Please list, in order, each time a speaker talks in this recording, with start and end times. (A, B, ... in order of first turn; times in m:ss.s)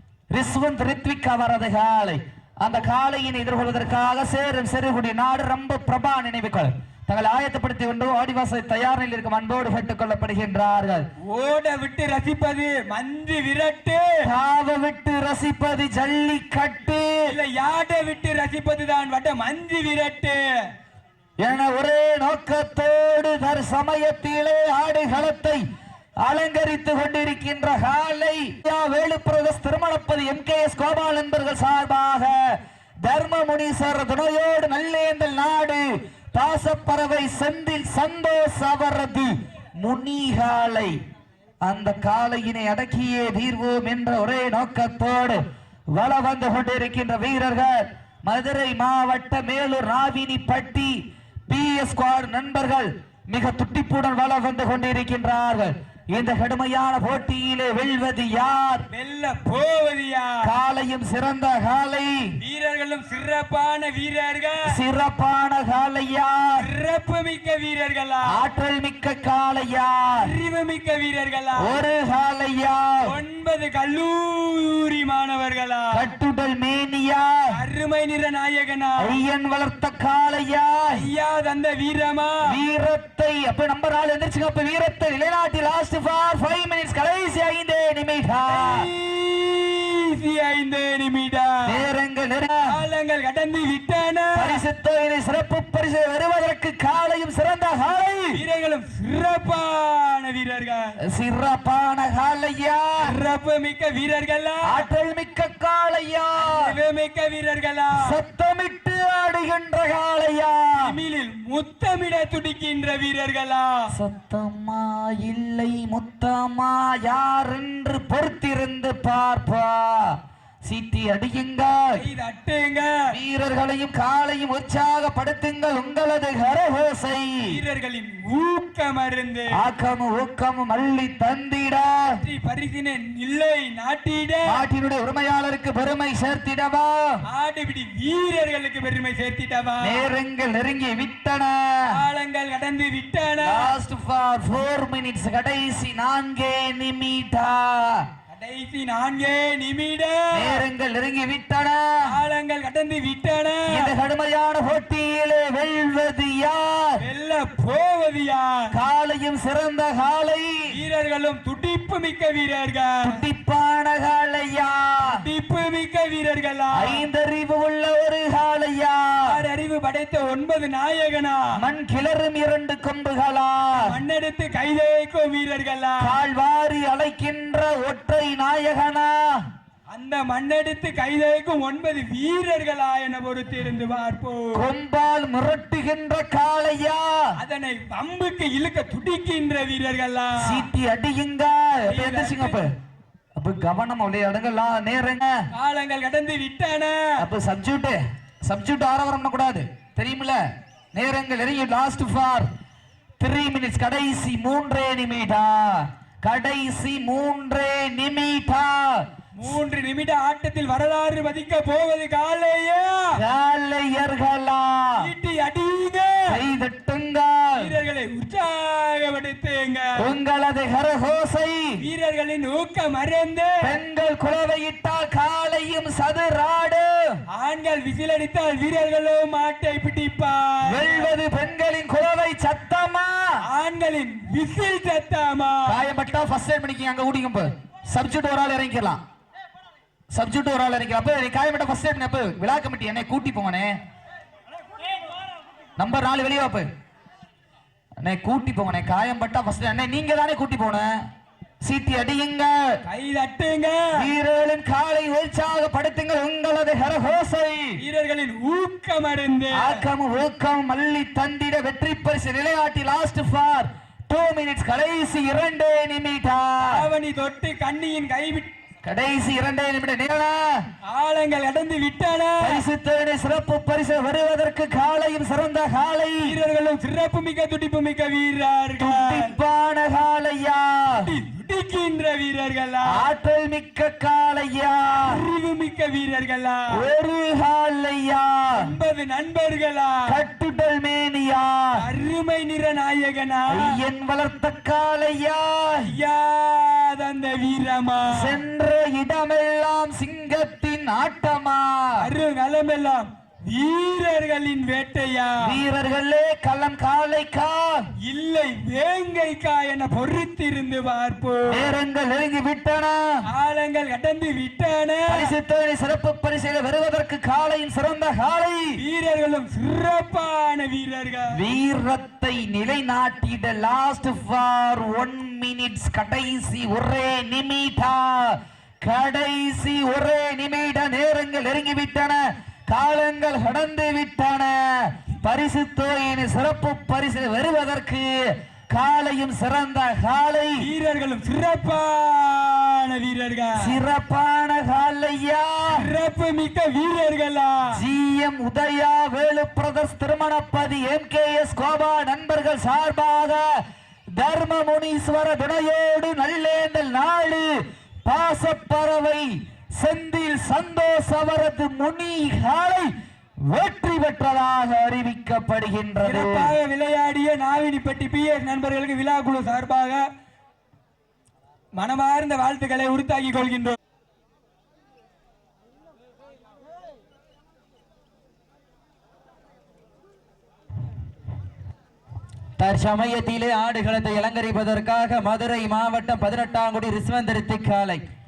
0:00.3-0:11.1 A
0:11.2-0:14.2 B
0:14.2-0:17.2 A
0:17.3-0:20.4 B
0:21.4-0:25.6 A
0:26.2-0:41.0 A
0:41.6-0:45.4 A
0:46.0-0:58.8 A
0:58.9-1:00.4 B
1:00.4-1:02.3 A
1:02.4-1:04.6 B
1:04.7-1:06.6 A
1:06.6-1:08.4 B
1:08.3-1:10.2 A
1:10.2-1:11.8 B
1:11.6-1:13.0 A
1:13.0-1:16.0 B
1:15.9-1:17.3 A
1:17.5-1:19.1 B
1:19.0-1:21.0 A
1:20.9-1:22.4 B
1:22.5-1:28.9 A
1:28.5-1:31.8 B
1:31.7-1:32.8 A
1:32.7-1:34.6 B
1:34.4-1:38.4 A
1:38.3-1:41.0 B
1:41.1-1:43.1 A
1:43.0-1:44.9 B
1:44.7-1:46.7 A
1:46.4-1:48.0 B
1:48.0-1:50.9 A
1:50.8-1:53.8 B
1:53.9-2:01.9 A
2:01.9-2:02.9 B
2:03.1-2:07.4 A
2:07.4-2:09.6 B
2:09.5-2:12.2 A
2:12.1-2:14.6 B
2:14.5-2:17.2 A
2:17.3-2:20.0 B
2:19.8-2:21.9 A
2:21.9-2:23.7 B
2:23.4-2:28.0 A
2:28.3-2:30.6 B
2:30.3-2:31.8 A
2:32.0-2:33.9 B
2:33.7-2:37.0 A
2:37.0-2:38.6 B
2:38.7-2:40.5 A
2:40.7-2:43.2 B
2:43.0-2:45.0 A
2:45.0-2:47.0 B
2:46.8-2:49.4 A
2:49.3-2:51.5 B
2:51.6-2:54.0 A
2:53.8-2:56.1 B
2:56.0-2:59.2 A
2:59.9-3:04.6 B
3:04.6-3:07.2 A
3:07.4-3:10.7 B
3:10.4-3:12.7 A
3:11.9-3:12.7 B
3:13.4-3:15.3 A
3:15.5-3:17.0 B
3:17.2-3:20.4 A
3:21.0-3:22.5 A
3:23.2-3:29.0 A
3:29.4-3:33.1 B
3:33.2-3:35.0 A
3:35.0-3:36.4 B
3:36.3-3:37.7 A
3:37.6-3:39.9 B
3:40.0-3:41.8 A
3:41.8-3:43.8 B
3:43.6-3:47.2 A
3:47.3-3:51.1 B
3:50.7-3:53.4 A
3:53.4-3:55.7 B
3:55.7-3:59.0 A
4:00.1-4:03.8 A
4:05.8-4:06.7 A
4:08.0-4:10.9 A
4:11.6-4:12.8 A
4:12.9-4:13.9 B
4:14.0-4:17.8 A
4:17.8-4:19.8 B
4:19.5-4:26.8 A
4:26.6-4:28.5 B
4:28.8-4:30.5 A
4:30.8-4:32.6 B
4:32.4-4:36.4 A
4:36.2-4:39.4 B
4:38.8-4:41.1 A
4:41.0-4:43.0 B
4:42.9-4:45.2 A
4:45.0-4:46.7 B
4:46.7-4:48.6 A
4:48.5-4:50.0 B
4:50.1-4:51.8 A
4:51.8-4:53.7 B
4:53.5-4:55.9 A
4:55.8-4:58.4 B
4:58.1-5:02.0 A
5:02.0-5:05.6 B
5:05.4-5:07.8 A
5:08.0-5:11.7 B
5:11.5-5:13.0 A
5:13.3-5:15.3 B
5:15.1-5:18.8 A
5:18.8-5:21.3 B
5:21.3-5:38.1 A
5:38.7-5:40.6 A
5:40.6-5:43.7 B
5:43.6-5:45.8 A
5:45.7-5:47.7 B
5:47.7-5:53.6 A
5:54.2-5:57.5 A
5:58.1-6:02.9 A
6:03.5-6:06.5 A
6:06.0-6:10.0 B
6:11.8-6:13.8 B
6:22.6-6:28.0 C